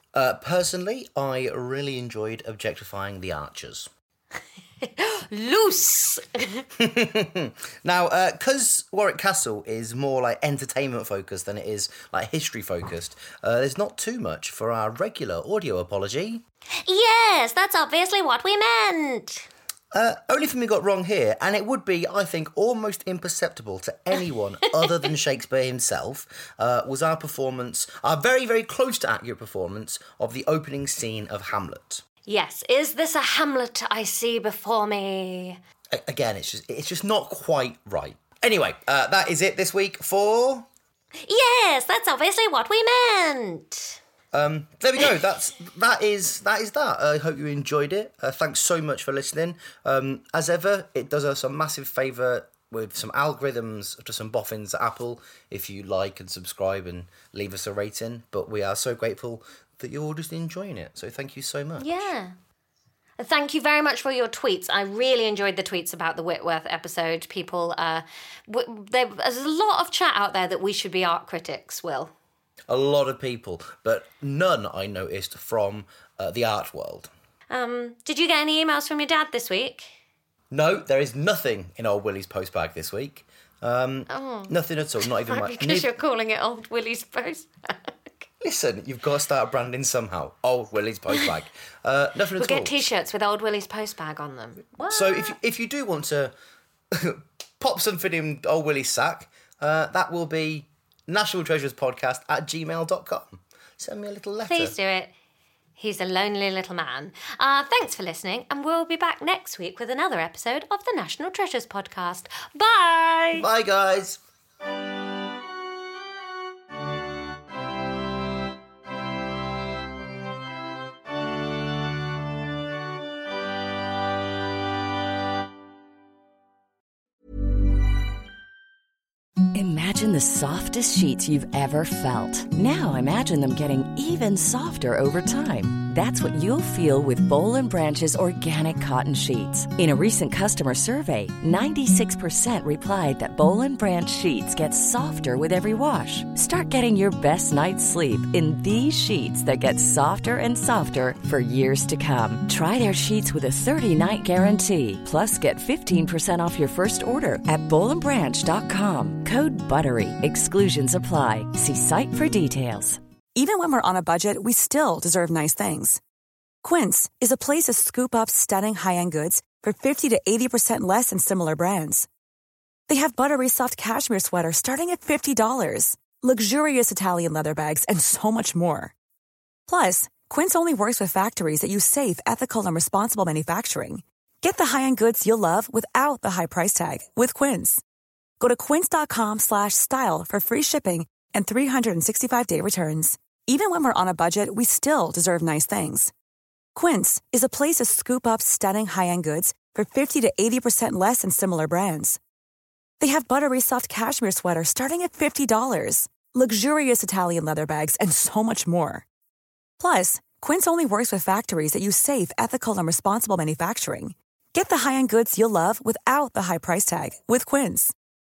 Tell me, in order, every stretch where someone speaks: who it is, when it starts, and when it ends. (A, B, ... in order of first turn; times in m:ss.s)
0:00.1-0:03.9 A
0:04.8-0:06.6 B
0:06.8-0:16.4 A
0:16.8-0:19.5 B
0:19.9-0:32.0 A
0:32.2-0:35.6 B
0:35.9-0:40.7 A
0:41.2-0:44.0 B
0:44.3-1:02.1 A
1:01.8-1:02.3 B
1:03.2-1:12.1 B
1:12.7-1:17.1 A
1:17.5-1:19.9 B
1:20.5-1:25.9 A
1:24.1-1:28.3 B
1:28.4-1:32.9 A
1:32.4-1:35.4 B
1:34.8-1:36.3 A
1:36.9-1:44.8 A
1:44.4-1:45.1 B
1:45.8-1:53.5 B
1:53.3-1:54.2 A
2:09.5-2:43.0 C
2:43.4-2:46.0 D
2:46.6-2:52.1 D
2:52.9-2:58.9 D
2:59.7-3:07.8 D
3:08.4-3:16.1 D
3:16.7-3:22.2 D
3:23.0-3:29.0 D
3:29.8-3:37.9 D